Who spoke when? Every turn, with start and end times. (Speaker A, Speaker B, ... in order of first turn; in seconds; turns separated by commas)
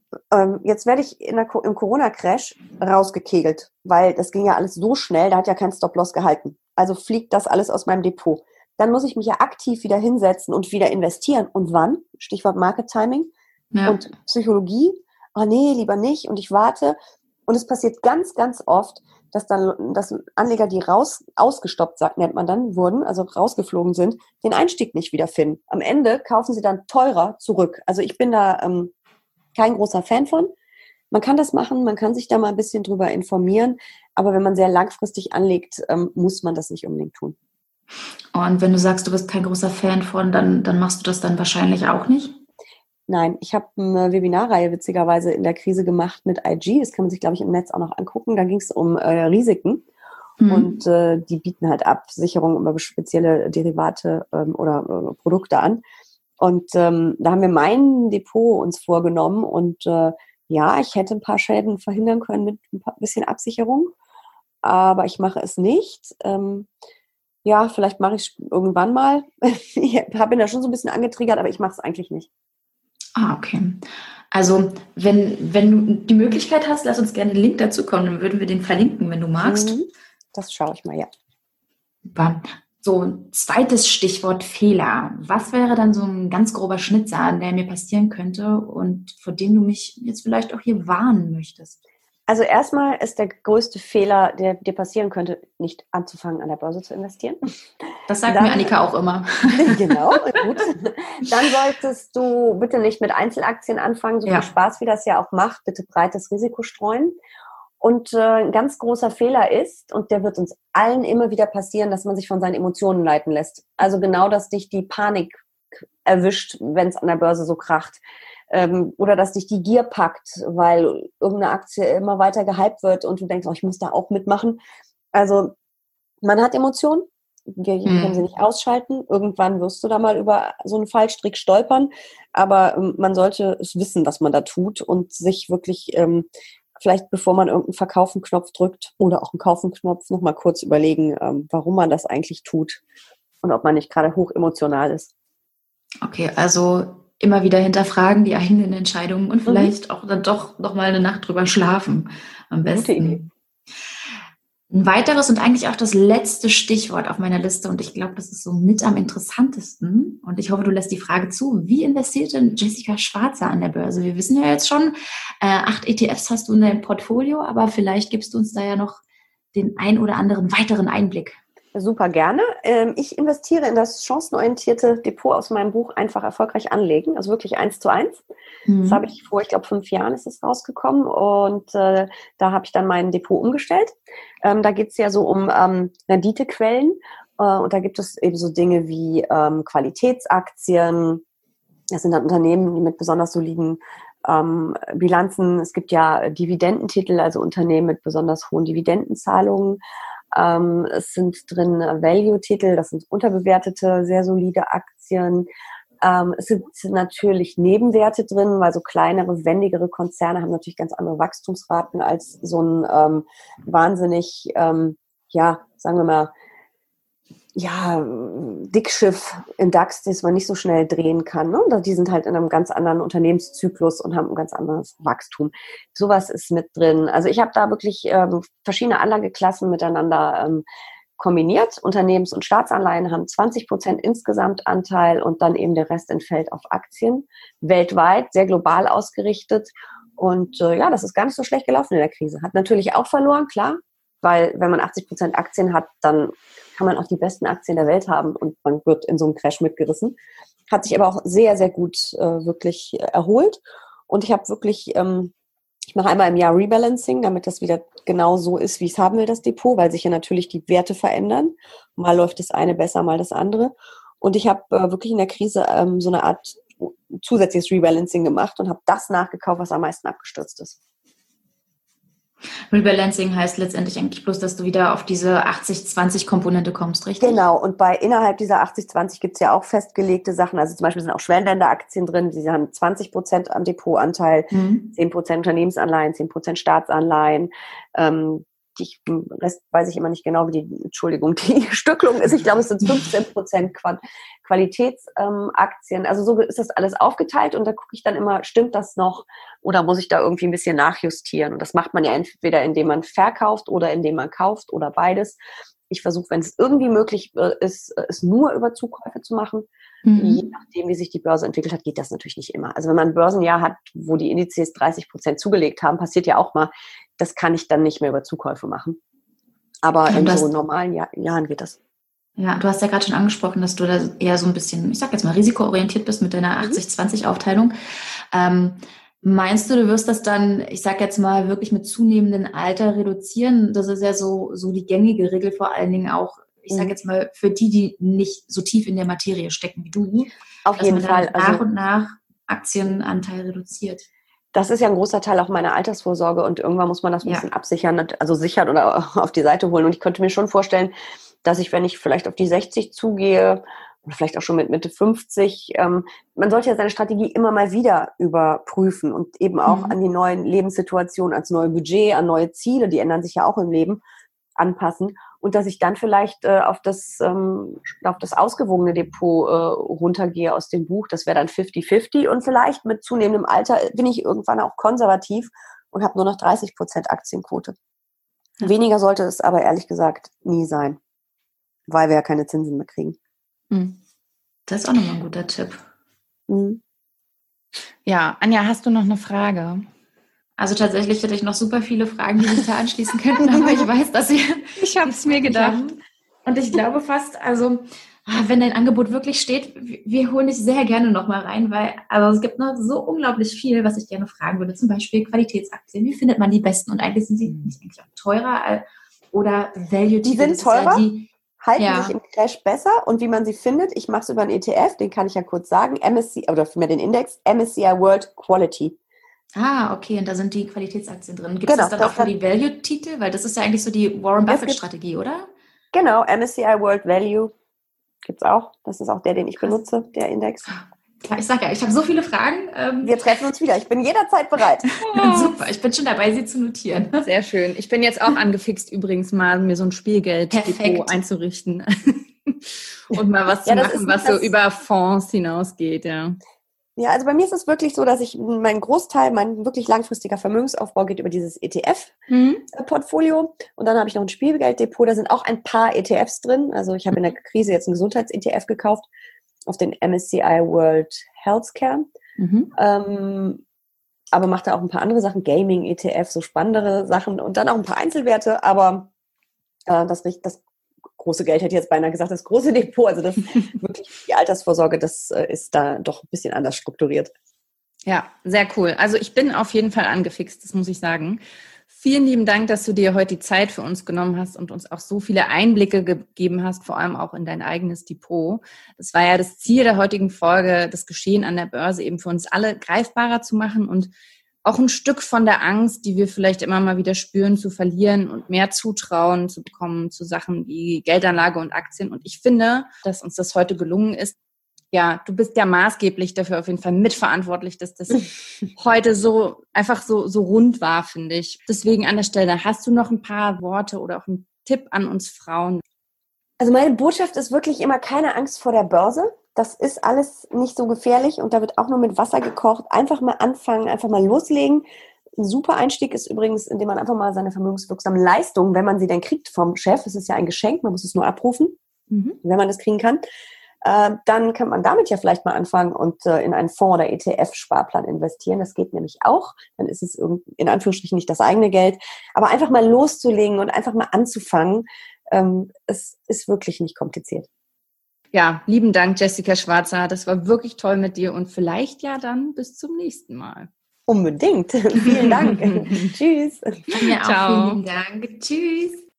Speaker A: 0.3-13.3, Speaker B: 13.7-14.0, Speaker A: 13.8-17.0, Speaker A: 17.5-28.9, Speaker A: 29.6-30.5, Speaker A: 31.1-37.4, Speaker B: 38.3-42.4, Speaker A: 43.1-49.9, Speaker B: 50.4-50.8, Speaker A: 50.5-55.8, Speaker A: 56.4-63.9, Speaker A: 64.6-66.7, Speaker A: 67.5-72.3, Speaker B: 73.2-79.8, Speaker A: 79.4-81.1, Speaker B: 82.1-91.8, Speaker A: 92.3-97.4, Speaker B: 98.1-99.8, Speaker A: 98.3-98.7, Speaker A: 99.5-107.2, Speaker B: 104.2-104.5, Speaker A: 107.8-115.4, Speaker A: 116.0-124.6, Speaker A: 125.1-125.5, Speaker A: 126.2-142.8, Speaker B: 127.8-128.2, Speaker A: 143.4-145.1, Speaker B: 146.0-153.3, Speaker A: 149.5-149.7, Speaker A: 152.6-153.2, Speaker B: 154.7-169.0, Speaker B: 169.5-171.4, Speaker A: 171.8-178.2, Speaker B: 178.7-179.0, Speaker A: 178.8-191.2, Speaker A: 191.9-199.8, Speaker A: 200.3-205.5, Speaker A: 206.0-216.3, Speaker A: 217.6-230.6, Speaker A: 231.2-250.2, Speaker A: 250.7-255.3, Speaker A: 255.9-270.8, Speaker B: 272.7-277.4, Speaker A: 277.2-305.4, Speaker B: 284.5-284.9, Speaker A: 305.9-309.7, Speaker B: 310.1-310.4, Speaker A: 310.2-319.0, Speaker A: 319.8-321.8, Speaker B: 320.1-320.5, Speaker B: 322.4-327.7, Speaker B: 328.3-344.1, Speaker A: 336.7-336.9, Speaker A: 340.7-341.6, Speaker A: 344.5-350.9, Speaker A: 351.4-364.0, Speaker A: 364.6-377.8, Speaker A: 378.6-381.0, Speaker A: 381.9-383.2, Speaker C: 383.7-384.0, Speaker B: 384.7-385.8, Speaker A: 386.5-386.8, Speaker C: 388.1-389.8, Speaker B: 390.6-412.1, Speaker C: 394.8-395.8, Speaker A: 410.2-411.0, Speaker A: 411.6-419.0, Speaker B: 419.6-425.5, Speaker A: 421.7-422.3, Speaker A: 424.5-424.8, Speaker A: 425.9-427.5, Speaker A: 428.2-430.7, Speaker B: 431.2-433.3, Speaker A: 433.0-434.9, Speaker B: 435.0-437.3, Speaker C: 435.1-435.6, Speaker C: 437.2-446.4, Speaker B: 440.5-441.1, Speaker A: 443.1-444.5, Speaker A: 447.0-459.0, Speaker C: 452.3-452.6, Speaker A: 459.7-462.1, Speaker C: 462.4-462.7, Speaker A: 462.8-463.6, Speaker A: 464.3-469.1, Speaker A: 469.9-470.6, Speaker A: 471.2-477.3, Speaker C: 478.1-481.4, Speaker C: 481.9-494.1, Speaker C: 494.6-504.4, Speaker C: 504.9-515.8, Speaker A: 516.6-524.8, Speaker A: 525.4-531.8, Speaker C: 532.1-532.4, Speaker A: 532.4-533.2, Speaker A: 533.8-547.5, Speaker C: 548.3-553.7, Speaker A: 554.1-556.8, Speaker C: 555.1-556.1, Speaker B: 556.9-559.0, Speaker C: 556.9-557.8